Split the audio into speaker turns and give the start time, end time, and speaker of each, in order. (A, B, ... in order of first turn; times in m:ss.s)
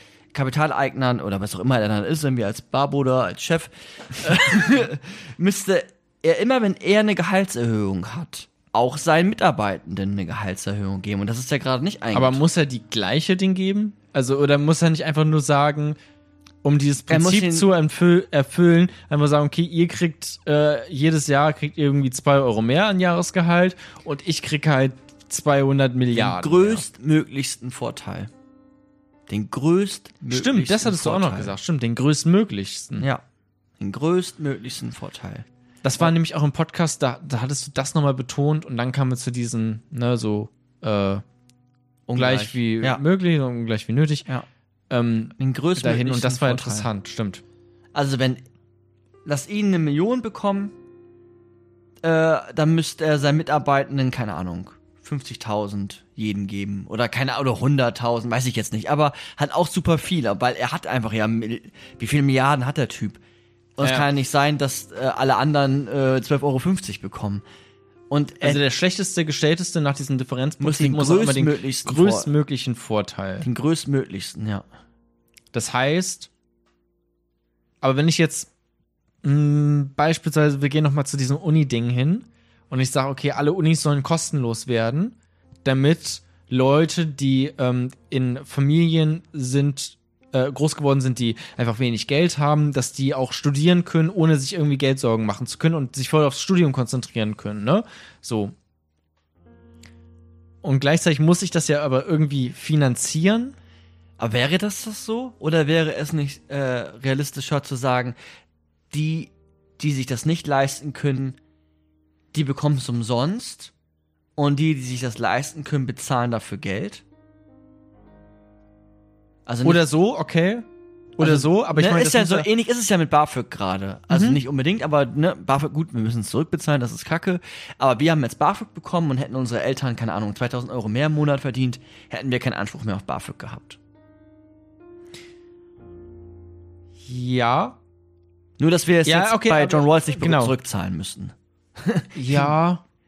0:00.3-0:12.4 A
0:12.1-0:16.0 B
0:16.6-0:26.8 B
0:17.1-0:17.7 A
0:26.1-0:28.3 A
0:29.3-0:31.6 A
0:30.3-0:33.1 B
0:33.0-0:33.2 A
0:33.8-0:35.5 A
0:35.8-0:41.2 B
0:42.1-0:43.0 A
0:42.2-0:44.3 B
0:44.9-0:47.4 B
0:45.4-0:46.9 A
0:47.9-0:48.4 A
0:49.3-0:50.7 A
0:52.0-1:03.2 A
1:03.8-1:07.4 A
1:03.8-1:04.1 B
1:08.1-1:08.6 A
1:08.4-1:13.5 B
1:10.6-1:12.3 A
1:13.4-1:14.6 A
1:15.5-1:16.3 B
1:17.8-1:18.5 B
1:19.2-1:38.6 B
1:40.6-1:43.6 B
1:44.2-1:48.2 A
1:48.9-1:51.4 A
1:52.3-1:53.7 A
1:54.4-1:57.0 A
1:59.5-1:59.8 A
1:59.6-2:02.5 B
2:01.2-2:13.8 A
2:04.1-2:04.4 B
2:17.0-2:17.8 B
2:18.6-2:22.5 A
2:19.1-2:20.6 B
2:22.1-2:22.8 B